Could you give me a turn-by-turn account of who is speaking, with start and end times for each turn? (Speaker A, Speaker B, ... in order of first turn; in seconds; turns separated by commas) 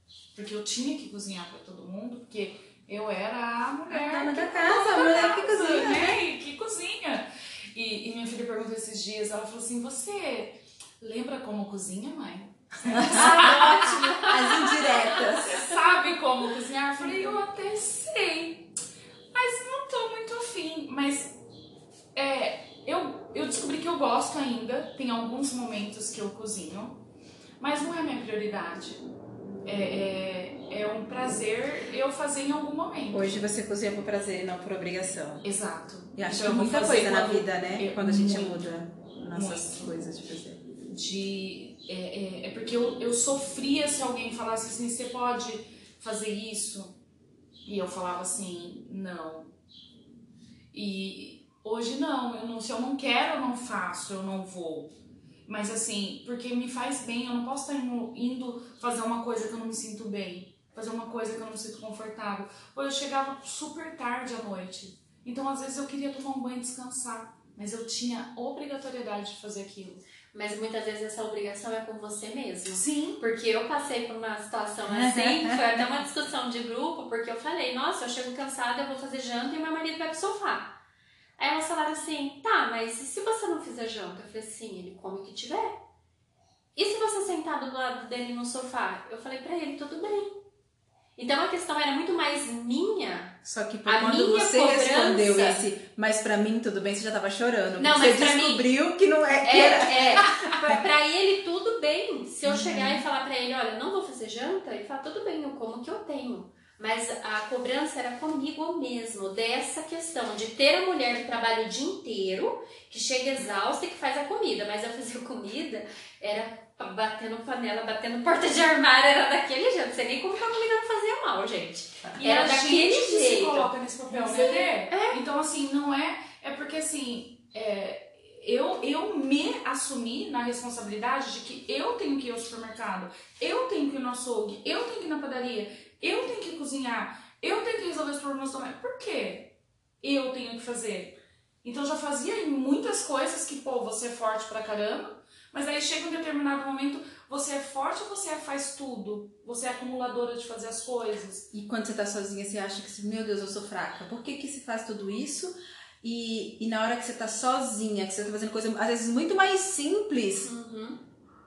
Speaker A: 0.3-13.9, Speaker B: 3.9-6.2, Speaker B: 12.9-15.7, Speaker C: 13.0-15.4, Speaker A: 14.6-18.7, Speaker A: 19.3-21.3, Speaker A: 22.1-27.0, Speaker A: 27.6-29.0, Speaker A: 29.6-33.3, Speaker B: 33.1-35.5, Speaker A: 35.4-38.6, Speaker B: 36.1-40.6, Speaker A: 39.3-39.9, Speaker A: 40.8-47.0, Speaker A: 47.6-49.5, Speaker A: 50.7-54.9, Speaker A: 55.5-70.0, Speaker C: 70.3-80.8, Speaker A: 72.7-73.2, Speaker B: 74.9-75.9, Speaker C: 81.4-85.8, Speaker C: 86.7-90.4, Speaker C: 91.2-95.6, Speaker B: 93.4-100.8, Speaker C: 97.8-98.7, Speaker C: 99.4-125.2, Speaker B: 102.4-103.0, Speaker A: 122.2-151.4, Speaker B: 151.5-160.5, Speaker C: 160.4-161.0